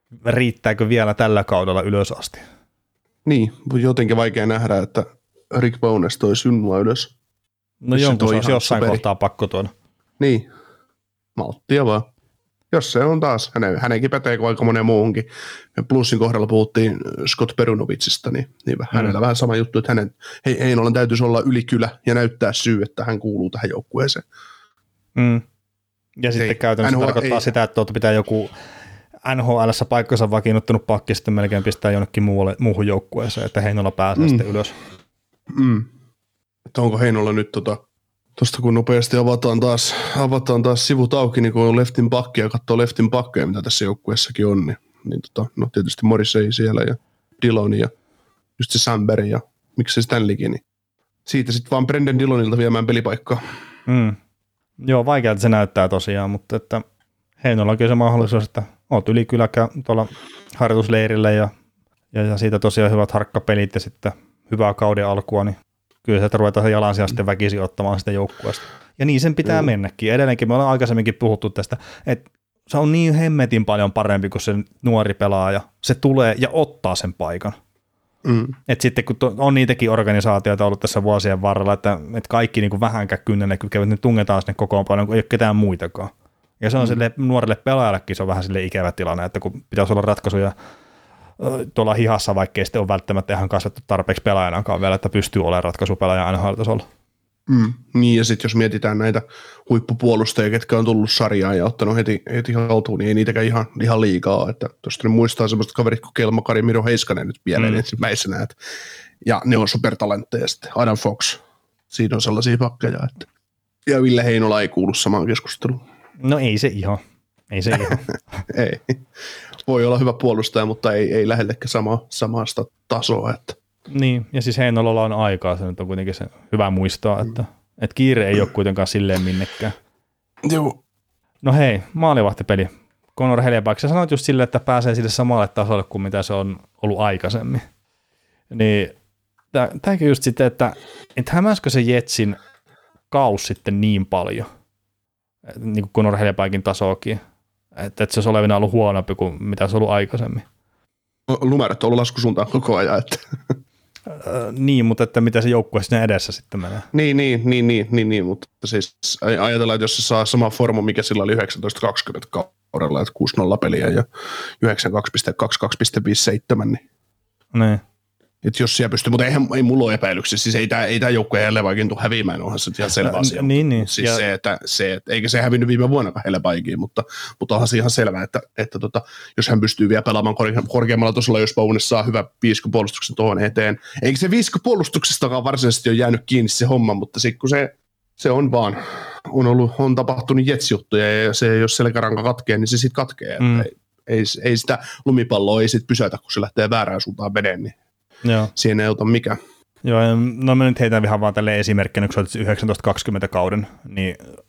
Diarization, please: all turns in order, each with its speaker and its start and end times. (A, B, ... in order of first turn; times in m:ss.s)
0:00.2-0:02.4 A
0:03.2-0:07.1 B
0:07.8-0:09.7 A
0:07.9-0:09.0 B
0:10.2-0:10.5 B
0:11.4-0:12.1 B
0:12.7-0:24.2 B
0:25.2-0:25.4 A
0:26.2-0:28.5 A
0:26.3-0:27.5 B
0:29.2-0:34.7 A
0:34.2-0:34.4 B
0:35.5-0:35.9 B
0:36.7-0:37.8 B
0:38.4-0:47.9 B
0:48.6-0:50.6 B
0:51.2-0:53.4 B
0:53.9-0:54.2 A
0:54.8-0:56.8 A
0:57.4-1:01.5 A
1:02.1-1:17.6 A
1:18.2-1:18.6 B
1:18.7-1:30.5 A
1:31.4-1:36.8 A
1:37.5-1:48.6 B
1:47.6-1:47.8 A
1:49.2-1:53.2 B
1:53.8-1:55.8 B
1:56.2-1:58.4 A
1:58.5-1:59.0 B
1:59.6-2:03.6 B
2:03.9-2:09.8 A
2:10.4-2:10.8 B
2:11.4-2:17.6 A
2:18.5-2:18.9 A
2:19.5-2:22.4 A
2:23.1-2:24.5 A
2:25.4-2:27.2 A
2:27.8-2:30.4 A
2:31.3-2:33.6 B
2:34.1-2:36.9 A
2:36.9-2:44.0 B
2:44.6-2:46.8 B
2:47.5-2:47.8 A
2:48.4-3:17.7 B
2:53.0-2:54.2 A
3:13.4-3:13.7 A
3:18.2-3:18.5 A
3:18.5-3:19.4 B
3:19.8-3:24.2 A